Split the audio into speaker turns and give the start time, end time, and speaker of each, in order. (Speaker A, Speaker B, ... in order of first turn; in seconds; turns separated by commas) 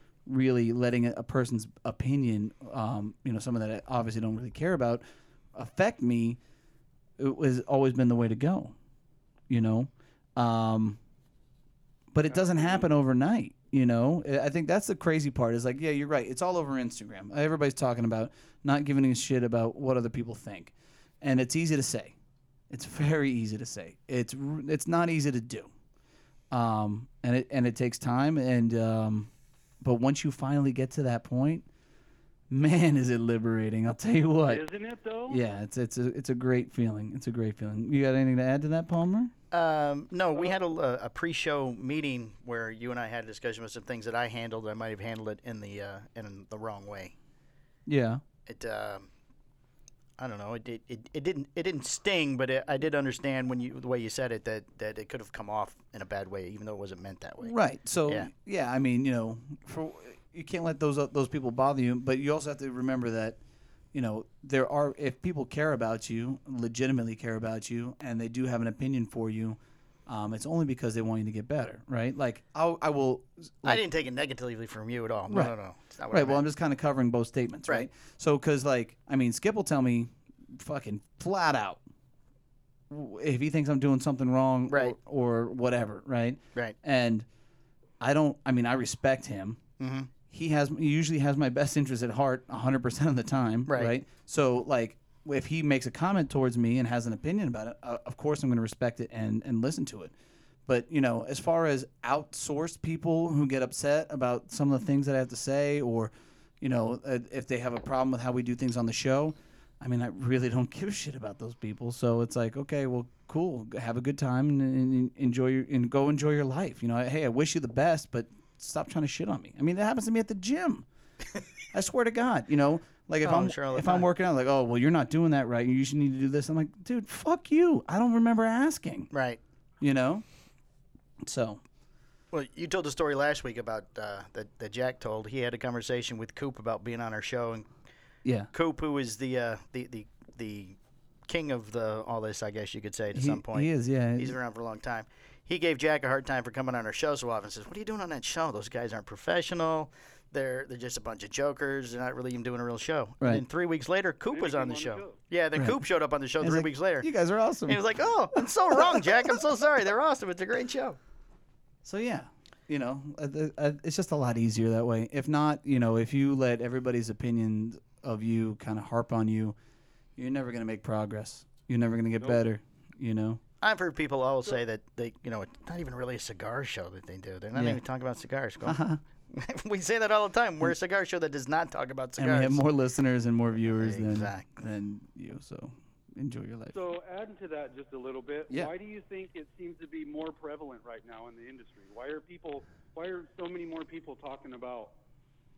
Speaker A: 0.2-5.0, Speaker A: 5.5-6.4, Speaker A: 7.2-8.7, Speaker A: 9.5-11.0, Speaker A: 12.1-22.1, Speaker B: 12.3-12.9, Speaker A: 22.7-25.7, Speaker A: 26.5-29.3, Speaker A: 29.8-31.6, Speaker A: 32.5-34.6, Speaker B: 34.5-35.4, Speaker A: 35.3-39.3, Speaker C: 39.5-47.1, Speaker A: 47.9-48.2, Speaker C: 48.5-49.1, Speaker C: 50.2-57.5, Speaker A: 57.4-63.4, Speaker A: 63.9-73.8, Speaker C: 73.6-76.4, Speaker A: 76.1-81.8, Speaker A: 82.9-87.2, Speaker C: 84.7-85.0, Speaker A: 88.0-89.6, Speaker C: 89.8-90.1, Speaker A: 90.3-100.1, Speaker C: 93.7-93.9, Speaker A: 100.7-120.8, Speaker A: 121.7-129.1, Speaker C: 123.2-124.1, Speaker C: 129.1-129.4, Speaker A: 129.8-130.2, Speaker A: 131.2-131.6, Speaker C: 132.3-137.7, Speaker A: 138.2-138.5, Speaker C: 138.5-157.1, Speaker A: 143.1-144.4, Speaker B: 154.3-155.2, Speaker A: 156.4-157.8, Speaker C: 157.7-161.0, Speaker A: 158.3-159.1, Speaker A: 161.8-169.6, Speaker A: 170.2-173.4, Speaker C: 173.6-182.6, Speaker A: 177.5-177.8, Speaker A: 178.6-179.0, Speaker A: 182.2-186.8, Speaker C: 183.6-184.5, Speaker B: 186.7-194.9